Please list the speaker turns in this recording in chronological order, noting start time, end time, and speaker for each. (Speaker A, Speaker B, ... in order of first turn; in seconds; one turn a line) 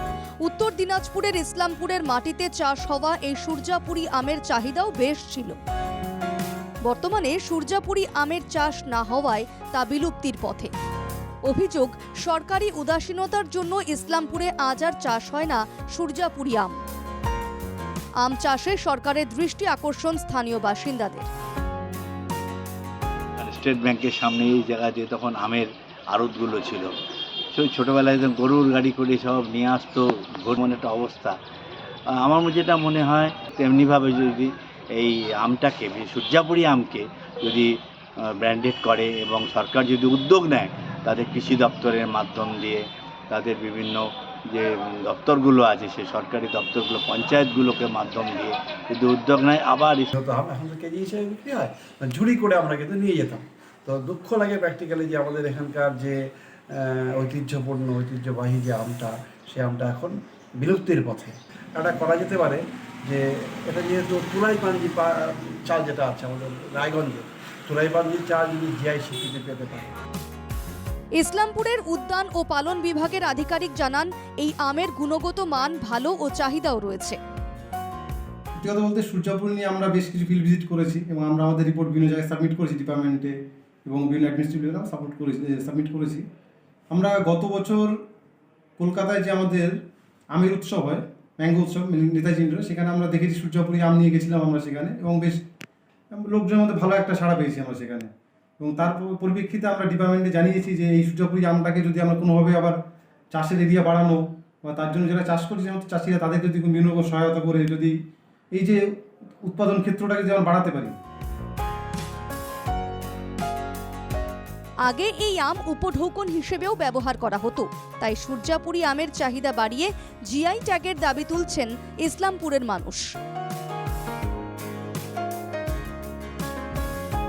Speaker A: 0.4-5.6
Speaker A: 6.8-10.7
Speaker A: 11.4-16.8
Speaker A: 18.2-21.3
Speaker B: 23.4-26.9
Speaker B: 27.5-31.4
Speaker B: 32.2-37.7
Speaker B: 38.4-50.1
Speaker C: 50.1-69.9
Speaker A: 71.2-77.2
Speaker D: 78.6-83.3
Speaker D: 83.8-86.2
Speaker D: 86.9-87.9
Speaker D: 88.8-89.7
Speaker D: 90.3-95.4
Speaker D: 96.1-102.8
Speaker D: 103.3-107.9
Speaker D: 108.5-108.8
Speaker D: 109.4-111.0
Speaker A: 114.8-123.0